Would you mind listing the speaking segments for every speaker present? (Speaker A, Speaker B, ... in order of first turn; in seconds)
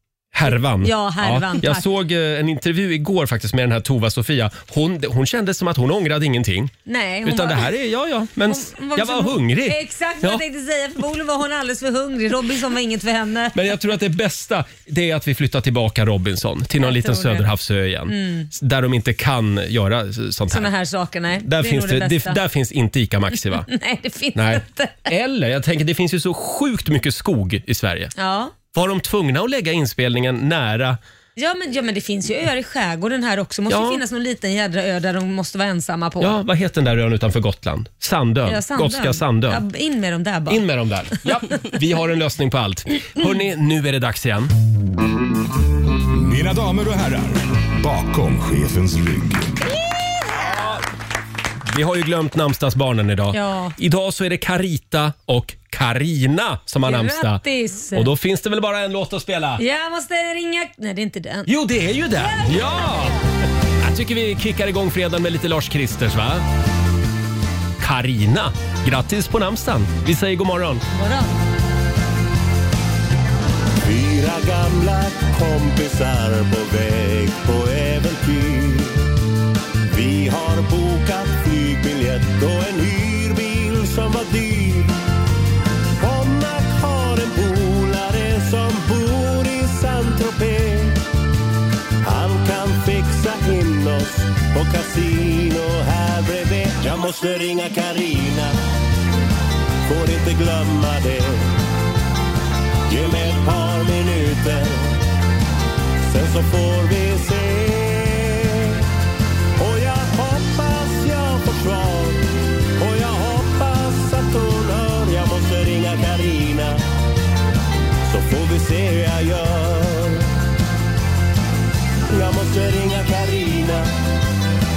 Speaker A: 0.3-6.7, 7.2-10.4, 13.5-20.7, 21.4-23.7, 24.3-28.1, 28.7-31.0, 33.7-34.0, 36.2-39.6, 40.5-44.5, 50.4-50.8, 51.7-57.4, 57.9-59.6, 61.5-63.1, 63.8-66.4, 67.8-70.8
Speaker B: 0.5-1.9, 6.8-7.7, 8.5-13.5, 16.8-17.4, 18.1-18.5, 20.5-22.4, 23.6-25.1, 28.1-28.5, 31.4-36.4, 38.5-40.6, 53.3-53.8, 56.8-58.1, 59.6-61.5, 62.2-63.1, 70.9-71.3
Speaker C: 46.1-49.7
Speaker D: 73.8-79.1, 79.9-85.0, 86.0-91.0, 92.0-98.6, 99.8-101.5, 102.9-104.9, 106.0-108.8, 109.6-112.2, 112.8-116.8, 118.0-120.3, 122.1-123.9